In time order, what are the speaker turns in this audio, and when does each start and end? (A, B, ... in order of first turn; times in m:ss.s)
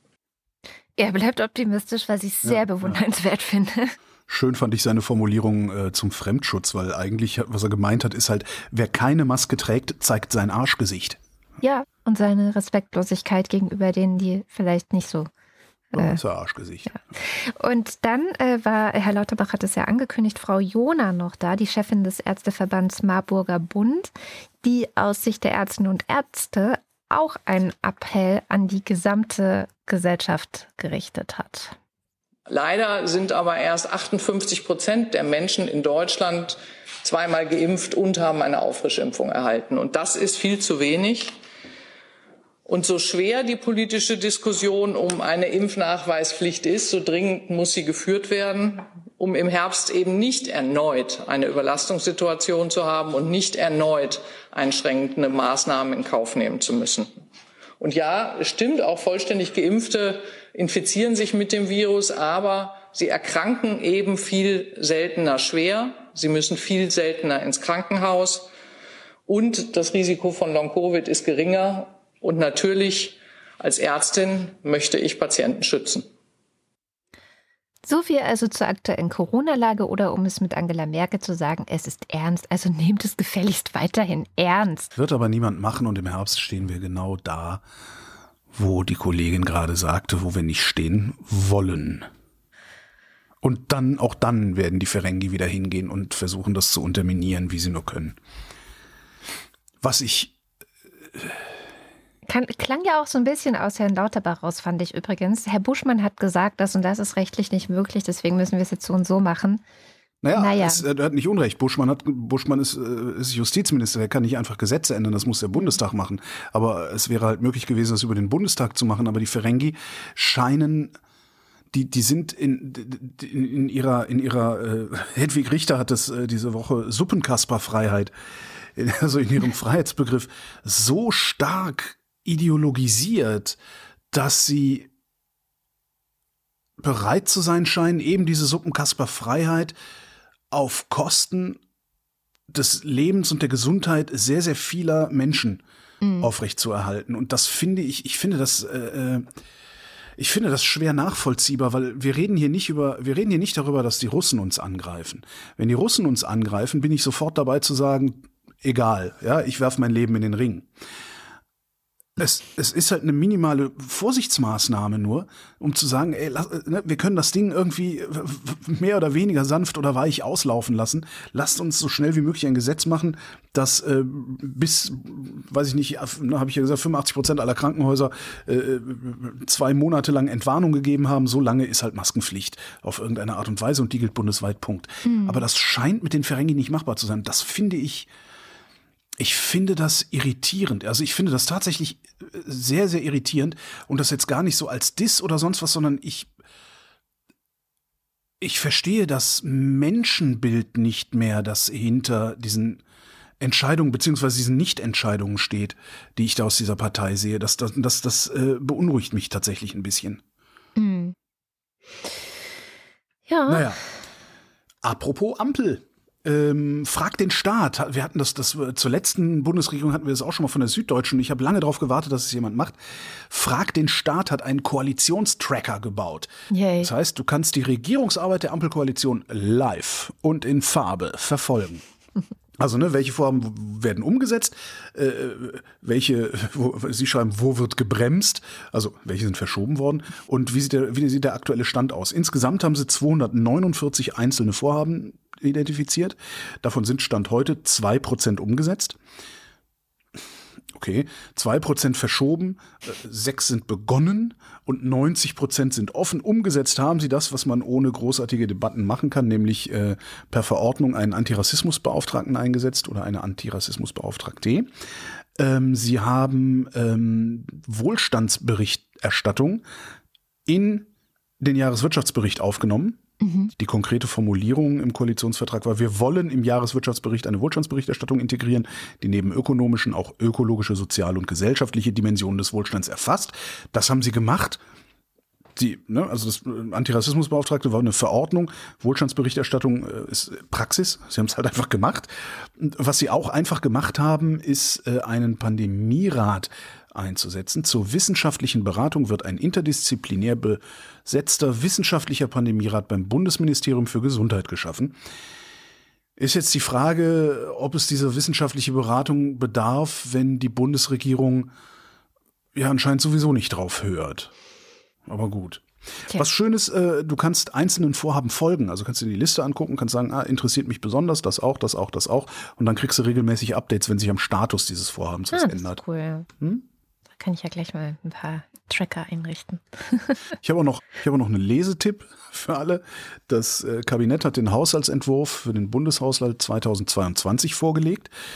0:01.0-0:04.0 A
0:02.5-0:03.0 B
0:04.3-0:11.2 B
0:11.6-0:15.3 A
0:15.9-0:16.2 A
0:16.0-0:17.0 B
0:16.9-0:24.1 A
0:24.6-0:31.8 A
0:32.5-0:41.4 C
0:42.7-0:57.2 C
0:57.8-1:08.5 C
1:09.3-1:16.1 C
1:17.9-1:24.9 A
1:25.0-1:27.6 B
1:28.5-1:32.1 B
1:33.4-1:38.2 B
1:39.8-1:40.4 B
1:42.3-1:49.6 A
1:50.2-2:01.0 B
1:50.4-1:50.8 A
2:01.7-2:08.1 B
2:08.8-2:13.6 B
2:14.1-2:14.9 B
2:16.8-2:19.8 B
2:20.5-2:21.6 B
2:22.5-2:25.6 B
2:26.0-2:26.3 A
2:26.2-2:29.3 B
2:30.2-2:40.7 B
2:42.2-3:08.1 B
3:05.0-3:05.4 A
3:09.2-3:16.3 B
3:18.4-3:22.8 B
3:23.4-3:30.2 B
3:30.8-3:31.2 A
3:33.3-3:33.7 A
3:33.5-3:33.8 B
3:34.8-3:42.8 B
3:43.3-3:51.8 B
3:46.5-3:46.9 A
3:52.6-4:09.0 B
4:10.7-4:24.7 B
4:25.4-4:29.6 B
4:30.5-4:30.9 B
4:31.4-4:33.0 B
4:33.2-4:33.5 A
4:33.6-4:44.6 B
4:45.6-5:05.0 B
5:06.2-5:11.5 B
5:12.6-5:14.3 B
5:15.1-5:25.8 B
5:25.3-5:26.3 A
5:27.2-5:30.2 A
5:30.4-5:38.1 B